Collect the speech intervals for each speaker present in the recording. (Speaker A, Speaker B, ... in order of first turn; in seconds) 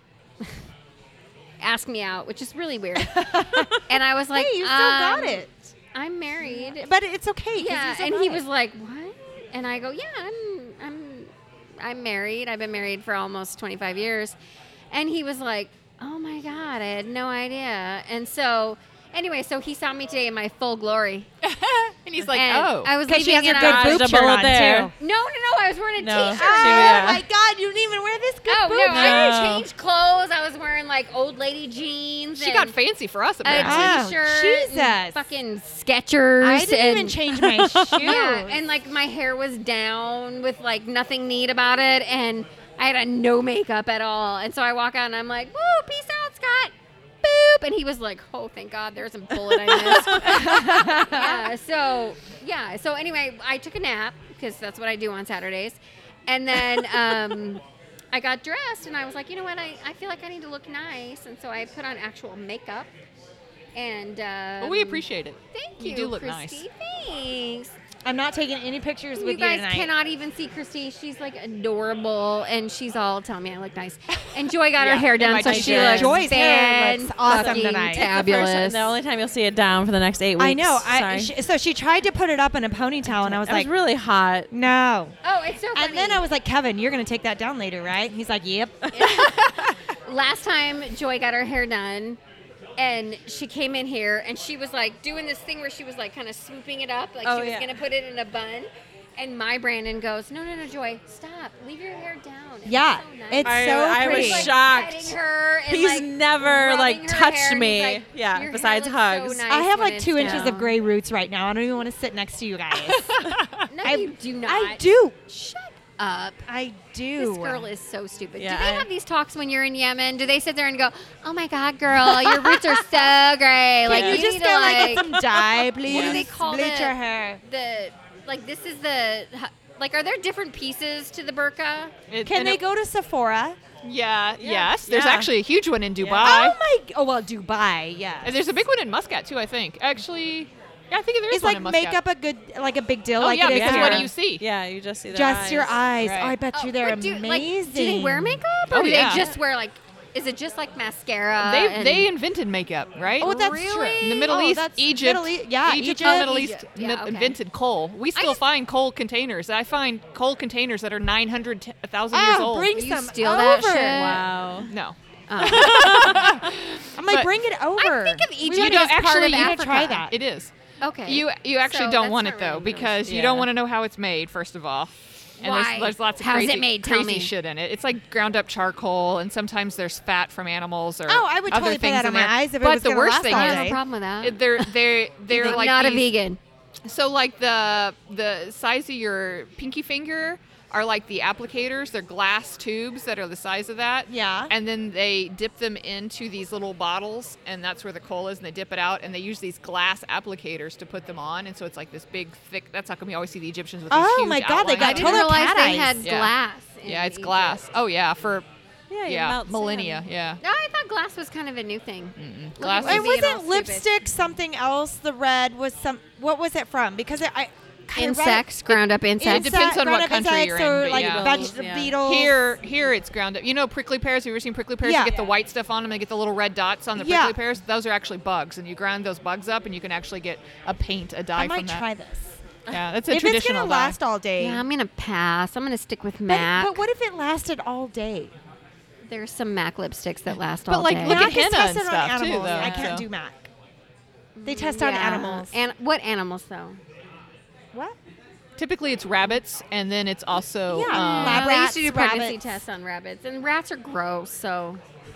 Speaker A: 1.6-6.9, 7.5-14.3, 14.9-21.3, 22.3-24.3, 25.0-27.1, 28.4-32.7, 33.4-37.2, 38.0-57.6, 58.1-62.9, 63.7-67.7, 69.2-78.9, 85.2-86.2, 88.9-92.2, 92.8-110.7, 113.7-116.4, 117.2-125.2, 125.8-131.9, 146.5-152.1, 153.2-154.6, 155.9-157.3, 162.7-164.7, 165.3-166.3, 167.8-170.0, 170.8-173.2, 175.4-177.3, 183.3-184.7, 185.3-186.4, 204.8-207.6, 210.4-213.8, 217.9-219.6, 234.4-236.8, 239.0-241.3, 244.3-246.8, 250.9-254.8
Speaker B: 3.1-3.8, 4.3-5.6, 6.5-8.4, 23.1-24.9, 26.3-29.6, 33.6-35.2, 36.4-38.6, 50.1-51.5, 68.0-69.9, 75.6-78.1, 80.4-83.7, 84.5-85.2, 85.7-88.9, 102.7-104.5, 109.5-113.1, 113.8-115.2, 116.5-117.7, 123.8-127.4, 132.2-133.6, 136.1-138.5, 141.3-144.1, 145.1-148.4, 153.2-156.4, 162.1-164.2, 166.9-170.1, 181.1-183.8, 194.1-194.5, 203.9-206.0, 212.8-222.4, 224.8-225.1, 226.9-227.4, 231.3-232.4, 233.1-234.6, 236.3-238.3, 241.0-243.5, 244.4-245.5, 250.7-252.6
Speaker C: 21.4-22.9, 32.3-33.9, 64.6-66.6, 74.7-76.2, 113.1-113.7, 132.1-132.6, 133.8-136.6, 138.2-142.0, 143.2-144.4, 146.0-146.3, 148.7-149.3, 151.4-162.7, 164.7-167.3, 168.4-170.5, 171.0-186.1, 186.8-205.3, 206.0-206.3, 206.8-208.4, 209.1-210.4, 212.2-213.1, 219.2-231.8, 232.7-234.0, 240.7-243.1, 248.6-251.5
Speaker D: 23.5-24.9, 26.0-27.2, 28.9-29.6, 37.4-38.1, 75.3-76.2, 77.3-81.3, 83.1-84.5, 97.2-97.8, 103.4-109.4, 110.2-110.5, 118.4-118.9, 123.9-124.3, 125.9-126.2, 134.4-135.3, 143.4-145.8, 163.9-164.7, 165.4-166.2, 173.1-173.5, 208.9-210.0, 220.9-222.0, 242.6-242.9